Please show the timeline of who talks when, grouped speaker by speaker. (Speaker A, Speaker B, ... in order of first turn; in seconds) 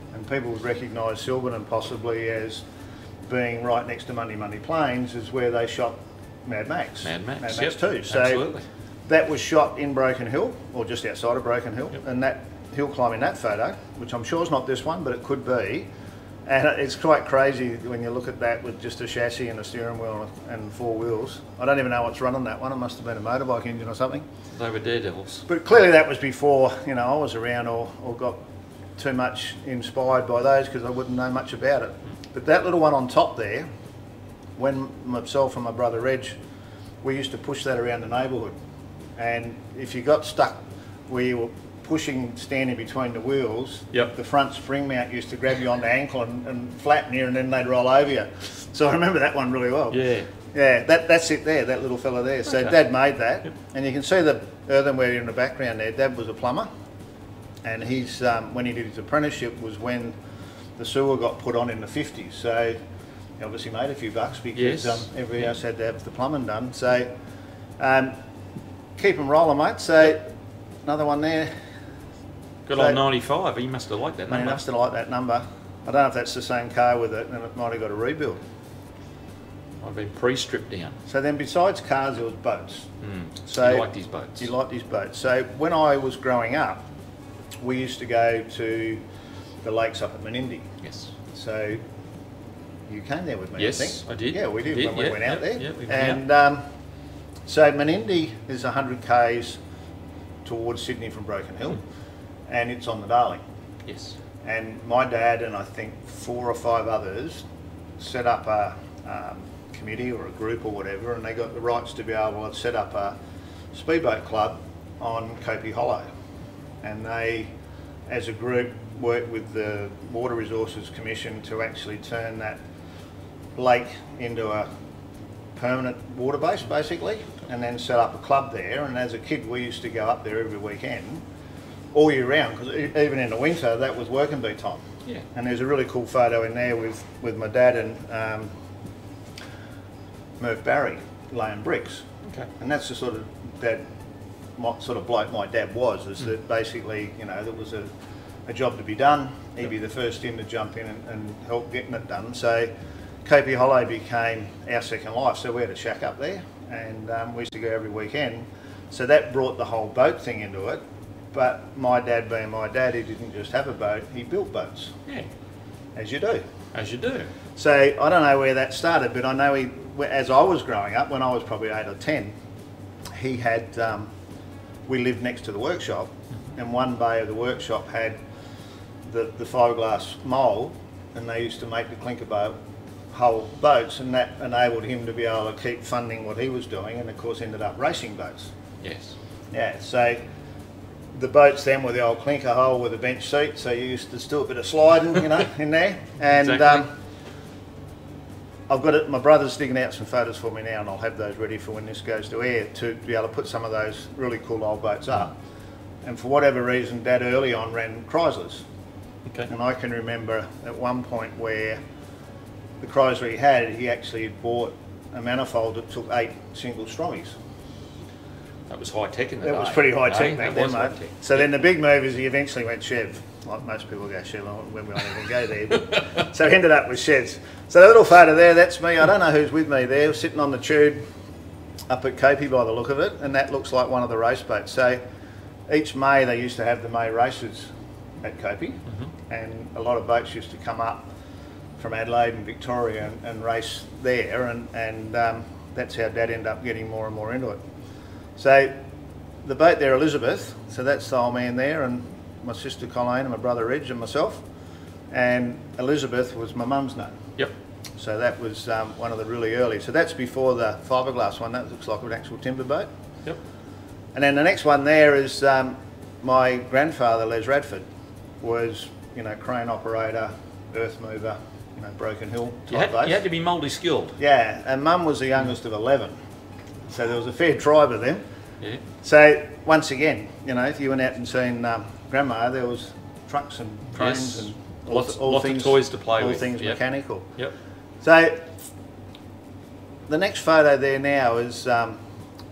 Speaker A: 0.1-2.6, 3.3-8.4, 9.1-15.9, 16.4-24.2, 25.4-28.4, 29.0-33.7, 34.6-36.4, 37.0-38.5, 39.2-56.7, 57.6-60.1, 60.8-62.8, 63.4-67.1, 67.8-68.1, 69.0-70.3, 70.8-71.5, 72.7-73.0, 74.3-78.4, 81.1-82.9, 83.4-86.8, 87.6-89.0, 89.6-90.7, 91.3-91.8, 92.9-96.6, 97.5-99.6, 100.4-101.8, 102.5-103.4, 104.4-107.5, 108.0-113.2, 113.7-116.1, 116.8-117.5, 118.1-122.6, 123.5-124.7, 125.5-131.2, 131.9-138.5, 140.4-142.1, 142.6-143.8, 144.6-147.9, 148.5-152.7, 153.2-160.8, 161.3-165.0, 165.9-166.4, 167.6-172.3, 173.1-174.1, 174.9-178.2, 179.0-182.6, 183.1-188.5, 189.5-190.2, 191.1-196.9, 198.7-205.3, 206.0-208.6, 209.5-211.8, 212.8-217.3, 219.4-231.0, 231.9-235.0, 235.7-237.7, 238.2-241.1, 241.8-247.6, 248.3-248.7, 249.4-254.4, 255.1-257.3, 258.0-262.9, 264.1-267.9, 268.4-273.2, 274.2-276.1, 276.9-278.2, 279.0-287.3, 288.0-288.5, 290.1-292.0
Speaker B: 7.0-8.6, 24.5-25.4, 49.9-50.3, 64.5-65.4, 72.7-74.6, 79.8-81.0, 83.0-84.5, 90.8-91.1, 93.6-96.2, 103.8-104.2, 166.7-167.3, 188.8-189.2, 196.3-196.8, 218.7-221.4, 272.7-274.2, 283.9-286.8